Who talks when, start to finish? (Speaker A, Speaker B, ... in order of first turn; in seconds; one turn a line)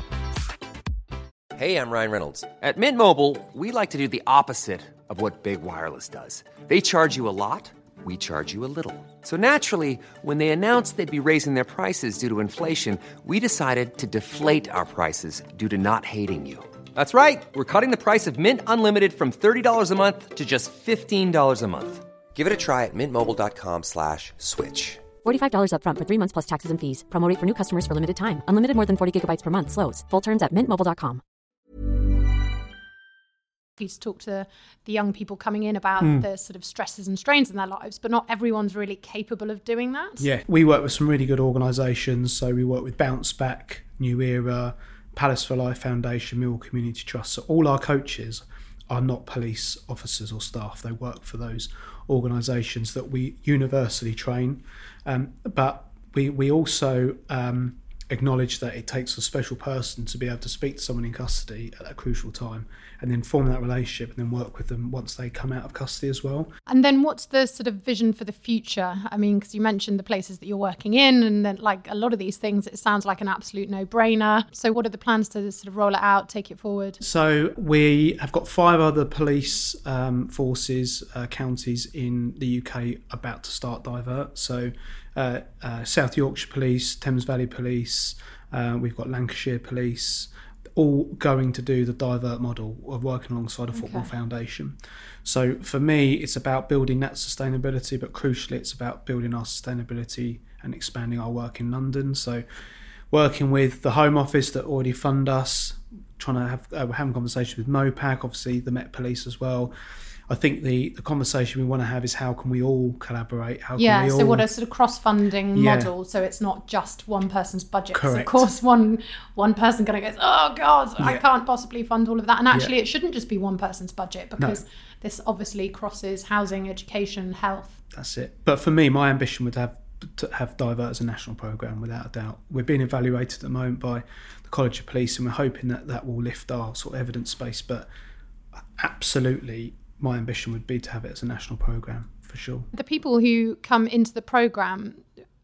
Speaker A: 1.5-25.1
Speaker B: 25.2-31.2
Speaker C: 33.8-40.3
Speaker D: 36.0-36.3
Speaker D: 40.2-66.5
Speaker C: 66.7-77.0
Speaker D: 77.0-102.4
Speaker C: 93.7-94.1
Speaker D: 103.1-109.7
Speaker D: 110.3-114.5
Speaker C: 113.8-127.8
Speaker D: 115.5-115.9
Speaker D: 117.9-118.5
Speaker D: 121.0-121.2
Speaker D: 127.9-137.9
Speaker D: 138.8-142.7
Speaker C: 142.7-145.1